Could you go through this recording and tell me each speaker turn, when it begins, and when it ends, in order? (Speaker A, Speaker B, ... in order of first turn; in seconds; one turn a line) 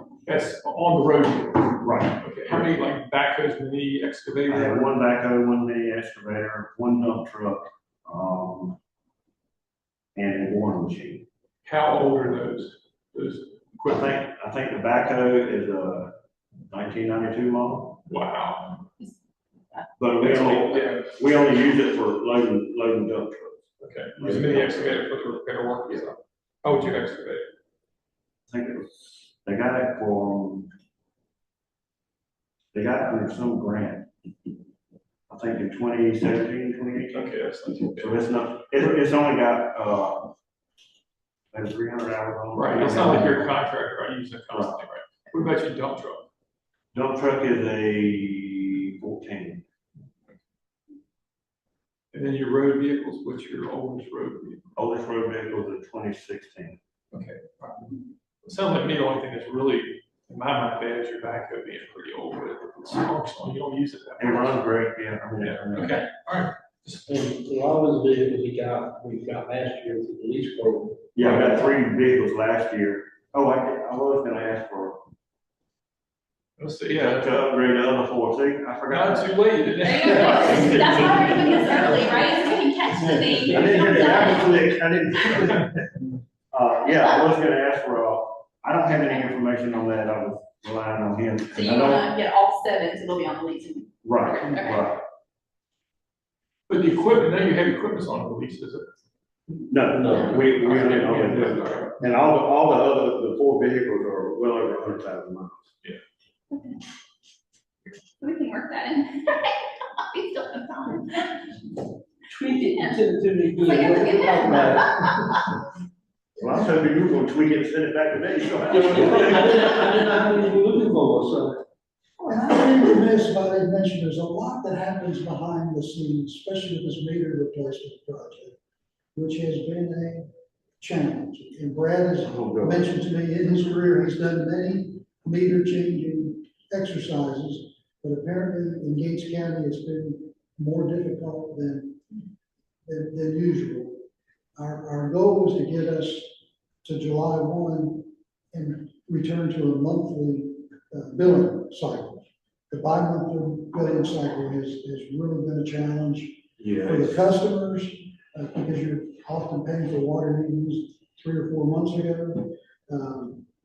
Speaker A: 0.2-4.9
Speaker B: 1.8-2.7
Speaker B: 4.5-8.8
Speaker B: 10.2-11.3
Speaker A: 11.7-14.2
Speaker B: 13.9-16.1
Speaker B: 16.7-18.0
Speaker A: 18.1-18.9
Speaker B: 20.0-25.0
Speaker A: 20.2-21.2
Speaker A: 23.8-27.5
Speaker B: 28.5-30.7
Speaker B: 32.7-34.1
Speaker B: 35.3-37.3
Speaker A: 37.1-38.2
Speaker B: 38.0-40.3
Speaker B: 41.5-43.4
Speaker A: 42.5-46.3
Speaker B: 44.5-44.8
Speaker B: 46.9-49.6
Speaker A: 52.1-54.7
Speaker B: 54.8-56.8
Speaker A: 57.1-64.7
Speaker B: 64.2-66.0
Speaker A: 65.4-66.5
Speaker C: 66.9-71.5
Speaker B: 71.2-75.0
Speaker A: 76.6-77.4
Speaker B: 77.0-79.3
Speaker A: 78.9-82.0
Speaker D: 79.8-84.5
Speaker B: 80.3-81.0
Speaker C: 83.1-84.2
Speaker B: 83.4-85.9
Speaker B: 86.5-92.1
Speaker D: 91.5-94.9
Speaker B: 94.0-95.0
Speaker A: 96.7-98.9
Speaker B: 99.7-105.7
Speaker A: 100.0-102.0
Speaker D: 106.5-106.8
Speaker D: 108.2-111.8
Speaker C: 112.3-115.4
Speaker D: 113.6-115.3
Speaker B: 116.4-120.0
Speaker C: 118.7-121.6
Speaker E: 122.2-128.6
Speaker E: 129.2-130.3
Speaker E: 130.8-142.0
Speaker B: 132.2-132.8
Speaker E: 142.9-144.1
Speaker E: 144.6-163.4
Speaker B: 156.6-157.3